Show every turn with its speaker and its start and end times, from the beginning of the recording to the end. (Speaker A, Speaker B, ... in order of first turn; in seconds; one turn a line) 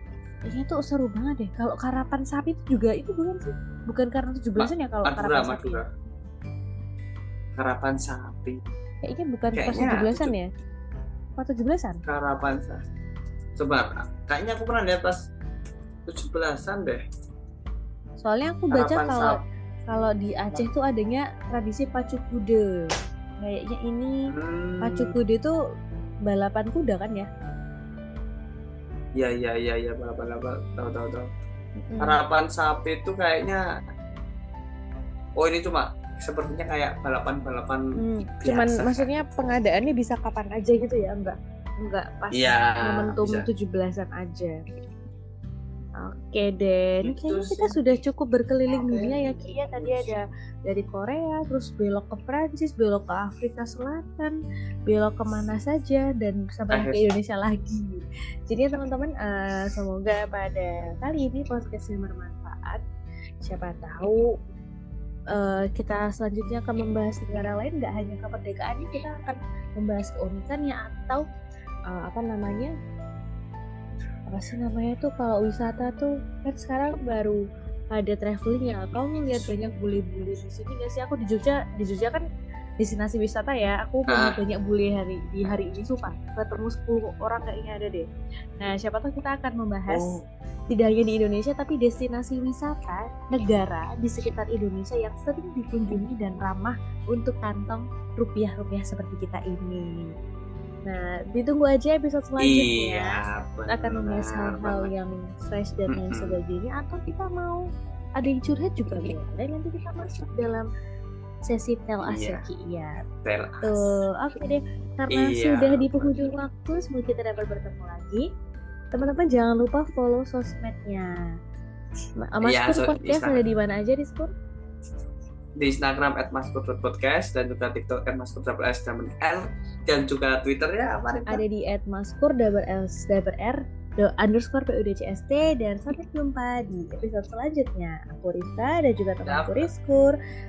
Speaker A: 0.5-5.8
Speaker B: 4.6-5.9
Speaker B: 7.6-8.6
Speaker A: 9.1-10.5
Speaker B: 9.6-10.3
Speaker A: 11.4-12.0
Speaker B: 12.1-12.8
Speaker B: 13.6-15.2
Speaker B: 16.1-17.0
Speaker A: 18.2-19.4
Speaker B: 18.7-19.4
Speaker A: 19.9-22.7
Speaker A: 23.4-24.3
Speaker B: 24.3-25.1
Speaker A: 24.8-25.5
Speaker A: 26.2-27.3
Speaker B: 29.2-31.3
Speaker A: 31.8-32.2
Speaker B: 32.0-33.6
Speaker B: 35.4-37.9
Speaker A: 38.0-44.6
Speaker B: 38.4-39.1
Speaker B: 42.3-43.5
Speaker A: 46.0-54.3
Speaker B: 47.0-47.8
Speaker A: 54.9-62.8
Speaker B: 56.7-57.0
Speaker A: 63.4-64.2
Speaker A: 65.3-71.2
Speaker A: 71.9-72.7
Speaker A: 74.3-77.4
Speaker A: 77.9-82.2
Speaker A: 82.8-88.1
Speaker B: 84.1-84.3
Speaker A: 88.6-90.0
Speaker B: 89.9-90.2
Speaker A: 90.7-100.1
Speaker A: 100.9-107.7
Speaker B: 102.4-104.9
Speaker B: 105.9-106.4
Speaker A: 108.2-110.7
Speaker A: 111.5-113.0
Speaker B: 112.0-112.4
Speaker B: 113.2-113.7
Speaker A: 113.6-118.3
Speaker B: 115.1-116.3
Speaker A: 118.9-121.1
Speaker A: 122.2-124.3
Speaker B: 122.4-123.4
Speaker B: 125.6-131.4
Speaker A: 131.3-140.2
Speaker B: 139.3-139.7